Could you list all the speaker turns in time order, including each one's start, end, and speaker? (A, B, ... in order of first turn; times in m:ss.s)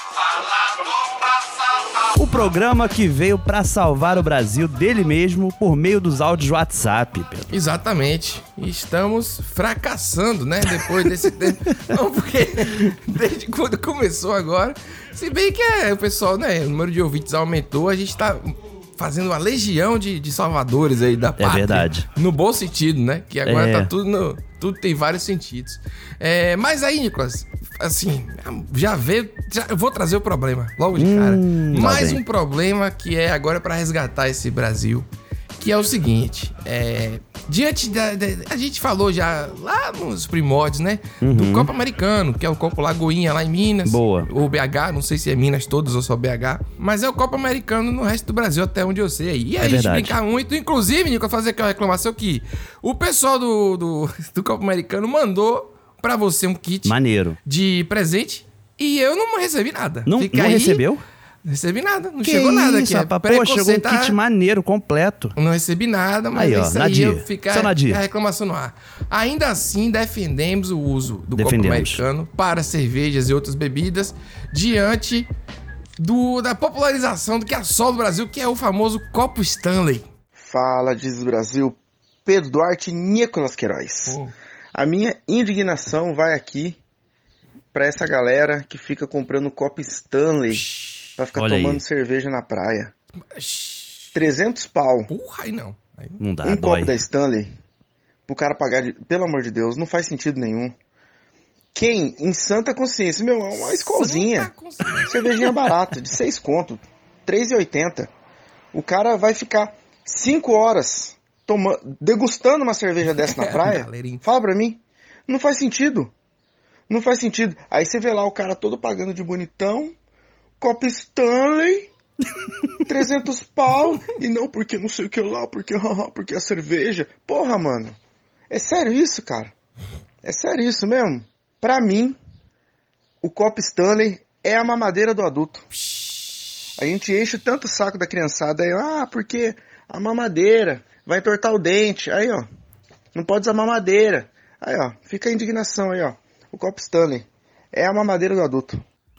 0:02.2-0:07.5 A
0:07.5-0:35.0 B
0:21.4-0:22.0 A
0:23.4-0:23.9 A
0:31.0-0:32.2 A
0:35.6-1:00.8 B
0:41.2-0:41.7 A
0:43.8-0:44.3 A
0:49.6-0:50.2 A
0:56.8-0:57.4 A
1:00.0-1:01.0 A
1:01.4-1:04.2 B
1:02.2-1:05.3 A
1:05.4-1:15.3 B
1:06.4-1:08.0 A
1:11.4-1:12.0 A
1:16.0-1:20.0 B
1:20.4-1:24.2 C
1:24.1-1:24.3 B
1:24.7-1:26.8 C
1:27.7-1:32.9 C
1:30.5-1:31.1 B
1:31.3-1:31.8 A
1:33.3-1:34.1 B
1:34.1-1:35.1 C
1:35.1-1:36.2 B
1:36.2-1:36.9 A
1:36.4-1:37.5 C
1:38.3-1:40.7 C
1:41.7-1:44.5 C
1:43.6-1:45.6 B
1:45.0-1:48.1 C
1:48.7-1:56.1 C
1:53.1-1:54.2 B
1:56.9-1:59.9 C
2:00.6-2:01.9 C
2:02.8-2:08.0 C
2:08.5-2:09.5 C
2:10.2-2:12.2 C
2:13.2-2:15.7 C
2:16.8-2:22.5 C
2:23.1-2:28.8 C